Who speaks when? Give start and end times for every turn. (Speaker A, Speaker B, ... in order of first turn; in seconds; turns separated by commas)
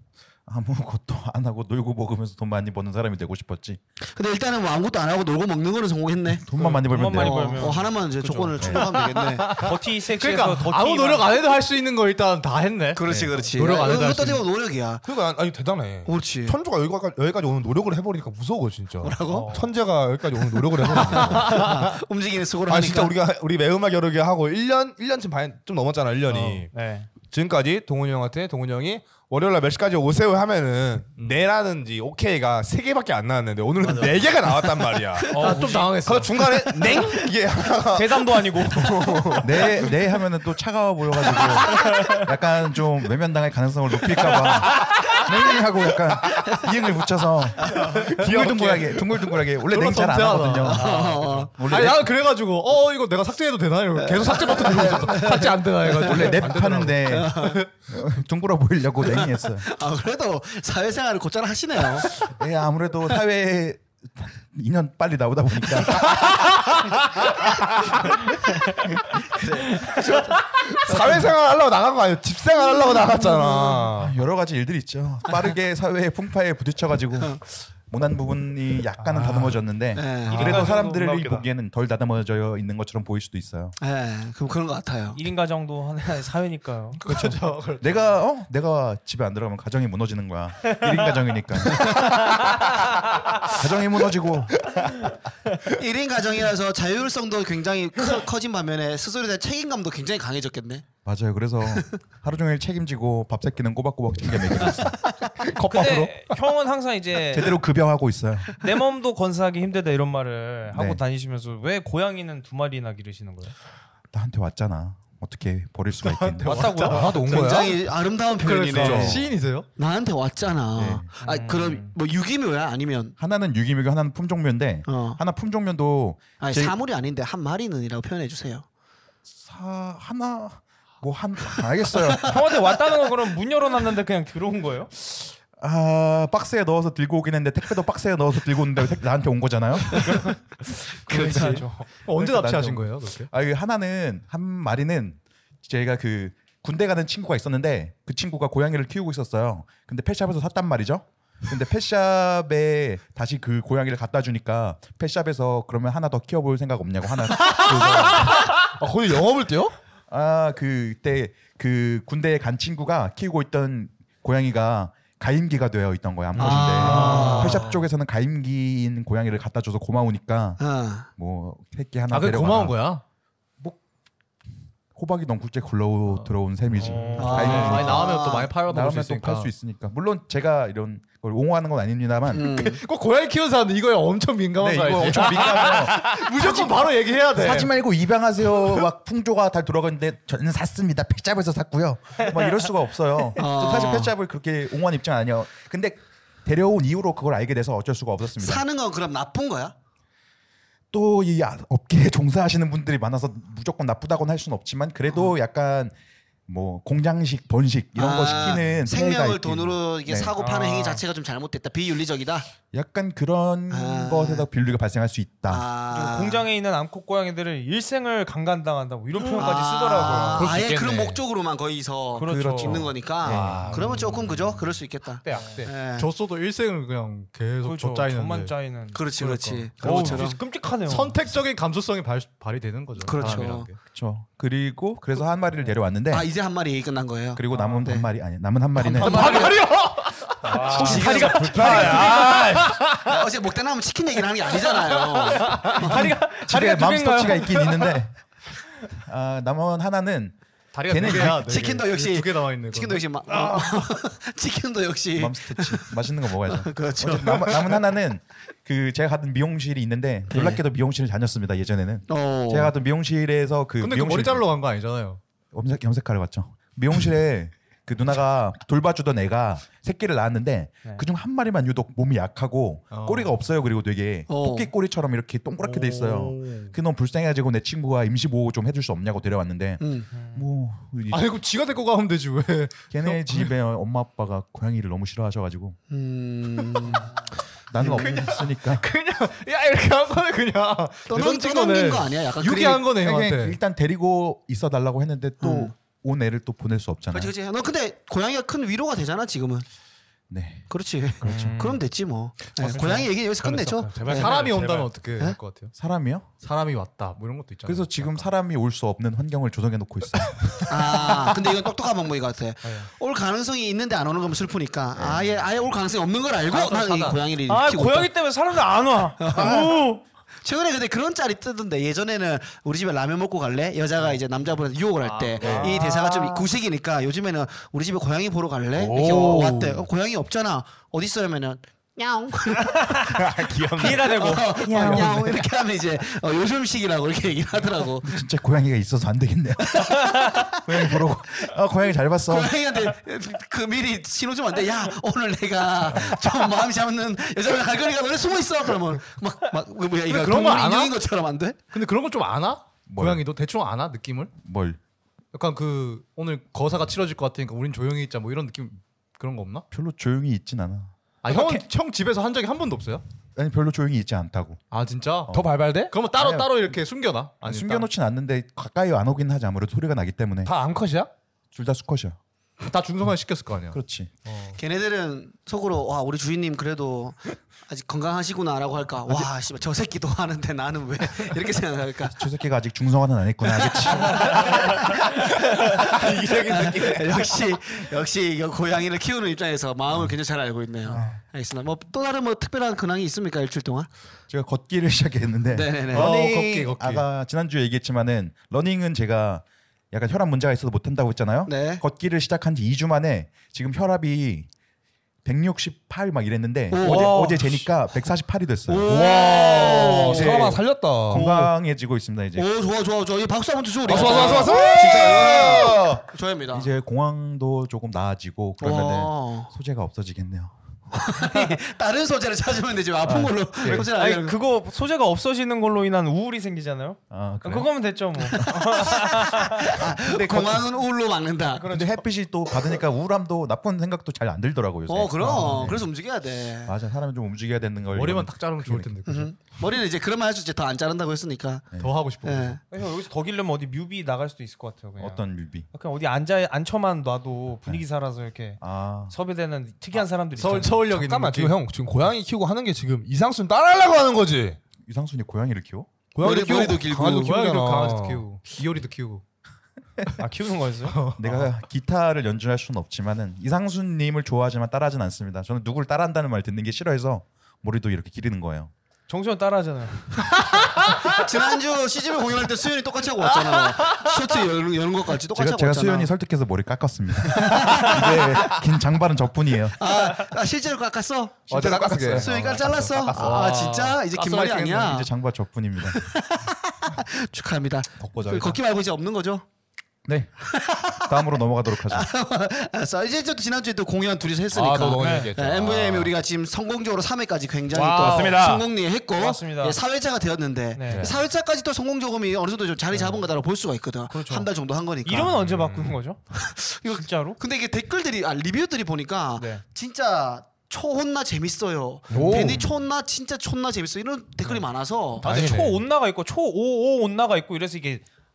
Speaker A: 0.5-3.8, Speaker B: 4.1-6.5, Speaker A: 6.3-7.7, Speaker C: 6.6-8.8, Speaker B: 7.1-9.7, Speaker A: 8.6-8.9, Speaker D: 9.2-14.4, Speaker C: 9.5-11.4, Speaker B: 12.9-15.0, Speaker E: 15.0-21.8, Speaker B: 16.1-16.6, Speaker B: 19.0-19.6, Speaker C: 19.3-19.7, Speaker B: 20.8-23.1, Speaker D: 21.3-21.6, Speaker E: 22.7-26.7, Speaker C: 26.3-27.1, Speaker E: 27.2-39.8, Speaker D: 33.9-34.1, Speaker C: 35.3-36.0, Speaker D: 35.4-37.0, Speaker B: 36.8-37.2, Speaker C: 37.9-39.7, Speaker A: 39.4-52.1, Speaker C: 41.4-42.3, Speaker B: 41.4-41.9, Speaker B: 47.6-48.2, Speaker D: 47.8-57.7, Speaker B: 50.6-51.5, Speaker B: 54.0-56.4, Speaker A: 56.0-59.7, Speaker B: 57.0-57.6, Speaker B: 59.1-62.3, Speaker A: 62.1-66.4, Speaker E: 66.3-66.8, Speaker B: 69.2-71.2, Speaker E: 70.4-74.2, Speaker A: 73.0-83.8, Speaker D: 79.1-79.5, Speaker B: 79.9-80.7, Speaker C: 80.3-81.5, Speaker B: 83.8-85.2, Speaker C: 85.1-87.0, Speaker D: 87.0-88.1, Speaker A: 87.1-92.4, Speaker C: 90.7-91.0, Speaker B: 91.7-92.1, Speaker C: 92.1-93.4, Speaker A: 93.4-94.8, Speaker C: 94.8-95.2, Speaker B: 95.6-100.9, Speaker A: 101.0-105.1, Speaker E: 105.6-106.1, Speaker C: 105.6-107.6, Speaker A: 107.3-108.5, Speaker C: 108.6-113.5, Speaker A: 110.7-111.0, Speaker A: 114.1-116.9, Speaker D: 116.0-117.7, Speaker C: 116.5-117.2, Speaker E: 116.9-117.8, Speaker B: 117.2-123.2, Speaker D: 118.3-119.7, Speaker A: 118.7-119.3, Speaker A: 120.7-121.1, Speaker C: 121.2-121.9, Speaker A: 123.2-126.8, Speaker B: 124.9-125.2, Speaker B: 126.4-128.7, Speaker A: 129.3-132.4, Speaker B: 131.9-132.4, Speaker C: 132.2-134.9, Speaker A: 135.1-140.3, Speaker C: 140.0-141.9, Speaker A: 141.1-158.5, Speaker D: 141.3-143.3, Speaker D: 157.6-158.3, Speaker E: 158.2-159.7, Speaker A: 160.1-170.6, Speaker D: 166.4-167.8, Speaker B: 166.4-167.7, Speaker B: 170.6-171.1, Speaker A: 171.2-172.8, Speaker D: 172.1-173.0, Speaker A: 174.9-182.6, Speaker C: 176.8-177.8, Speaker D: 176.8-179.5, Speaker B: 177.2-178.5, Speaker B: 182.3-182.8, Speaker D: 182.4-187.7, Speaker A: 184.6-198.7, Speaker B: 193.4-194.1, Speaker B: 198.4-199.7, Speaker A: 200.9-205.9, Speaker A: 206.5-210.3, Speaker B: 208.0-212.5, Speaker C: 210.4-211.0, Speaker A: 212.7-215.7, Speaker B: 213.7-214.5, Speaker B: 215.5-216.5, Speaker C: 215.9-220.6, Speaker B: 219.2-226.1, Speaker D: 220.0-221.2, Speaker C: 222.1-222.9, Speaker A: 222.2-223.8, Speaker D: 223.2-224.3, Speaker D: 225.3-228.6, Speaker E: 225.3-225.7, Speaker C: 227.6-229.0, Speaker B: 228.9-230.4, Speaker D: 229.2-233.8, Speaker C: 229.8-231.2, Speaker B: 233.0-233.7, Speaker A: 233.1-236.3, Speaker B: 236.1-238.1, Speaker A: 237.3-239.5, Speaker C: 237.5-237.8, Speaker B: 238.8-239.6, Speaker D: 238.9-243.2, Speaker C: 239.2-239.5, Speaker C: 240.4-242.2, Speaker B: 240.6-242.4, Speaker A: 240.8-241.8, Speaker E: 240.8-242.9, Speaker B: 243.1-246.2, Speaker D: 244.7-245.8, Speaker C: 245.6-247.9, Speaker A: 245.9-248.1, Speaker A: 248.9-250.4, Speaker D: 250.7-253.5, Speaker A: 250.9-251.6, Speaker B: 251.4-255.9, Speaker A: 255.2-264.4, Speaker B: 256.5-257.8, Speaker B: 260.3-260.6, Speaker B: 262.1-262.7, Speaker D: 263.8-265.2, Speaker A: 265.5-281.3, Speaker D: 272.9-273.3, Speaker B: 274.3-274.7, Speaker D: 275.6-276.7, Speaker B: 279.8-280.1, Speaker C: 280.1-280.5, Speaker D: 281.1-283.5, Speaker A: 282.9-285.8, Speaker B: 285.9-287.2, Speaker A: 287.7-288.9, Speaker B: 287.8-288.4, Speaker D: 287.8-293.6, Speaker B: 291.1-292.9, Speaker A: 293.0-297.3, Speaker B: 295.4-295.7, Speaker B: 297.1-299.7, Speaker A: 300.3-300.7, Speaker B: 300.7-304.4, Speaker A: 301.2-301.6, Speaker C: 301.2-301.8, Speaker D: 302.6-305.7, Speaker E: 302.7-305.0, Speaker C: 302.8-303.1, Speaker A: 305.8-306.3, Speaker D: 306.4-308.3, Speaker A: 307.7-311.3, Speaker D: 310.2-311.2, Speaker B: 310.7-318.1, Speaker A: 315.0-315.3, Speaker D: 316.5-317.2, Speaker C: 317.5-320.0, Speaker B: 319.2-319.8, Speaker B: 320.4-333.1, Speaker D: 325.0-326.4, Speaker E: 325.4-325.8, Speaker C: 325.4-326.5, Speaker E: 328.8-329.8, Speaker C: 332.6-333.2, Speaker E: 333.0-334.3, Speaker C: 333.8-335.3, Speaker B: 333.8-338.2, Speaker A: 334.8-335.2, Speaker A: 338.0-342.6, Speaker B: 339.6-341.5, Speaker B: 342.3-351.6, Speaker A: 345.9-346.2, Speaker D: 350.1-351.0, Speaker D: 351.7-354.3, Speaker A: 352.9-353.3, Speaker A: 354.4-354.8, Speaker D: 355.3-359.6, Speaker A: 359.7-360.9, Speaker D: 361.2-363.0, Speaker C: 361.4-361.6, Speaker A: 363.4-364.6, Speaker D: 364.7-367.9, Speaker E: 365.3-365.9, Speaker A: 366.1-366.6, Speaker A: 367.4-370.5, Speaker E: 370.4-371.1, Speaker A: 371.5-372.2, Speaker D: 372.6-374.6, Speaker A: 373.7-374.1, Speaker B: 374.6-382.2, Speaker A: 382.1-384.3, Speaker B: 383.6-393.9, Speaker E: 385.6-387.4, Speaker A: 390.9-391.2, Speaker A: 394.3-404.5, Speaker B: 395.5-396.2, Speaker D: 395.9-397.0, Speaker B: 401.5-401.8, Speaker A: 405.2-412.5, Speaker B: 406.7-407.5, Speaker E: 406.8-407.1, Speaker B: 408.7-410.6, Speaker E: 408.9-411.5, Speaker B: 412.4-416.7, Speaker E: 413.9-415.9, Speaker A: 413.9-420.5, Speaker B: 418.6-419.5, Speaker B: 420.9-424.4, Speaker A: 423.1-423.9, Speaker C: 423.7-429.8, Speaker A: 427.1-427.7, Speaker B: 428.3-431.7, Speaker A: 429.7-430.7, Speaker C: 431.6-432.0, Speaker A: 431.6-435.9, Speaker B: 434.9-436.7, Speaker A: 436.6-438.9, Speaker D: 437.9-439.4, Speaker B: 439.1-442.6, Speaker D: 441.8-442.6, Speaker C: 442.7-450.9, Speaker A: 445.0-445.7, Speaker A: 448.6-449.1, Speaker D: 450.3-451.6, Speaker E: 450.9-454.6, Speaker A: 454.9-455.9, Speaker E: 456.1-458.2, Speaker B: 456.2-457.4, Speaker D: 457.1-459.2, Speaker C: 460.2-461.0, Speaker D: 460.9-461.5, Speaker A: 461.2-468.7, Speaker C: 469.1-470.4, Speaker B: 470.8-476.1, Speaker A: 475.3-479.8, Speaker B: 477.3-478.5, Speaker B: 479.8-485.1, Speaker A: 481.5-482.4, Speaker E: 481.5-483.5, Speaker D: 482.1-484.9, Speaker A: 484.7-486.0, Speaker B: 485.9-489.4, Speaker E: 488.0-488.6, Speaker A: 490.1-490.3, Speaker B: 490.4-505.4, Speaker A: 491.0-492.1, Speaker E: 494.5-496.1, Speaker C: 495.0-495.3, Speaker C: 497.7-498.5, Speaker E: 497.9-498.7, Speaker C: 499.1-499.8, Speaker C: 500.8-501.1, Speaker E: 500.9-501.2, Speaker C: 504.1-504.5, Speaker C: 505.0-506.2, Speaker E: 505.4-505.9, Speaker B: 506.3-515.3, Speaker C: 506.9-507.4, Speaker C: 509.4-509.6, Speaker E: 512.1-512.7, Speaker D: 512.3-512.6, Speaker C: 515.2-518.0, Speaker E: 515.2-515.8